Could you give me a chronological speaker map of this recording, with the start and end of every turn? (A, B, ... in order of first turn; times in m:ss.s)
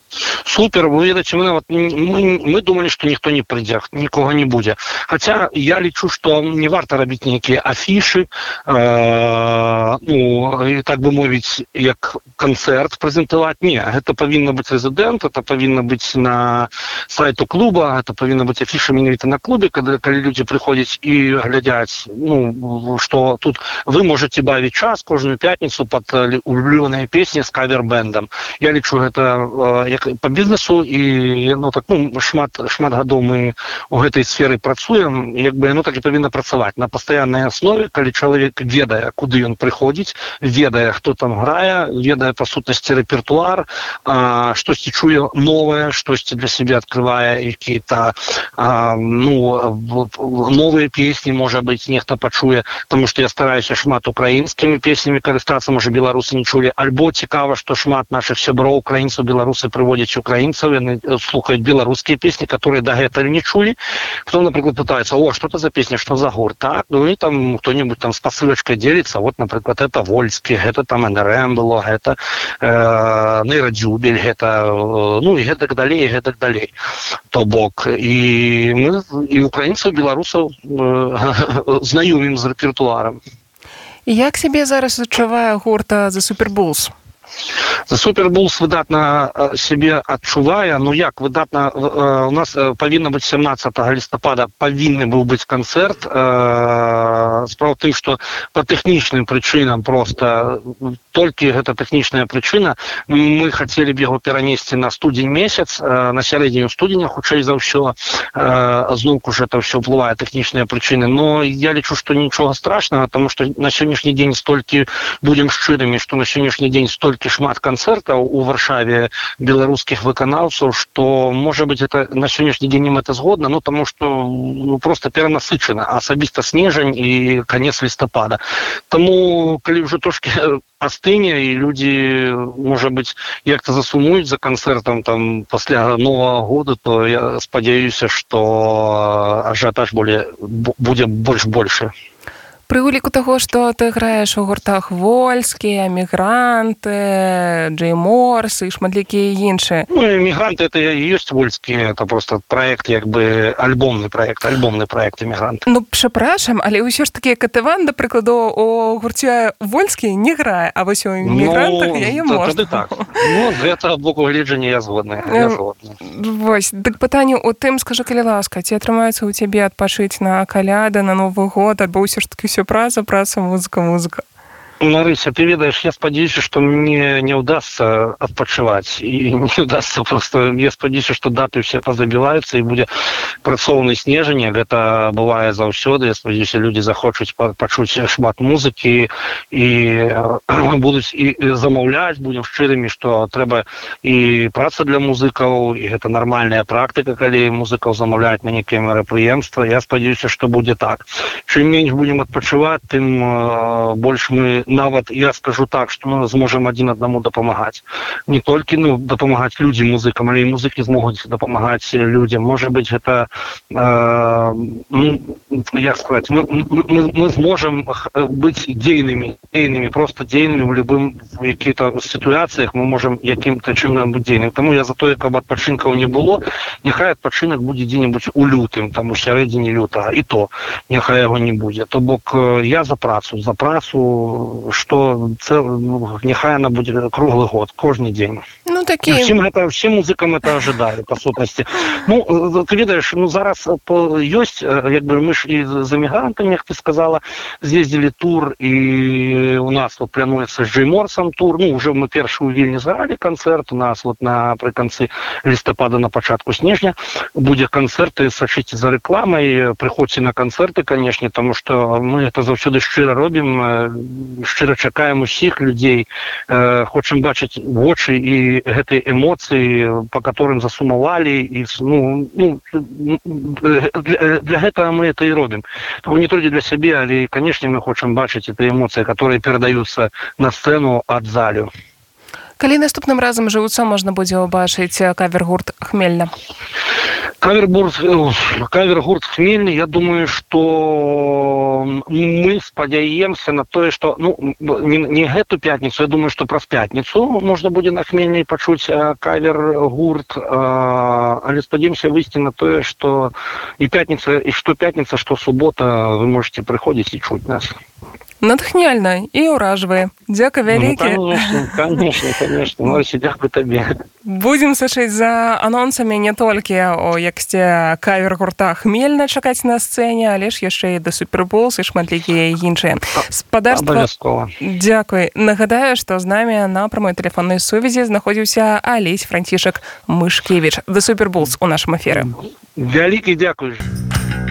0:00.4-1:16.7 A
1:17.3-1:23.2 A
1:24.1-1:26.9 B
1:27.9-2:08.4 A
2:08.9-2:21.9 A
2:22.7-2:29.9 B
2:29.9-2:35.6 A
2:35.7-2:43.3 B
2:41.2-2:46.0 A
2:45.2-2:54.2 B
2:54.8-3:02.9 A
3:03.4-3:58.4 A
3:58.7-3:59.4 B
3:59.1-4:41.7 A
4:42.6-4:46.3 B
4:47.4-5:07.8 A
5:08.4-5:11.8 B
5:10.7-5:13.9 A
5:14.2-5:24.1 B
5:23.7-5:24.5 A
5:24.6-5:32.3 B
5:32.1-5:33.9 A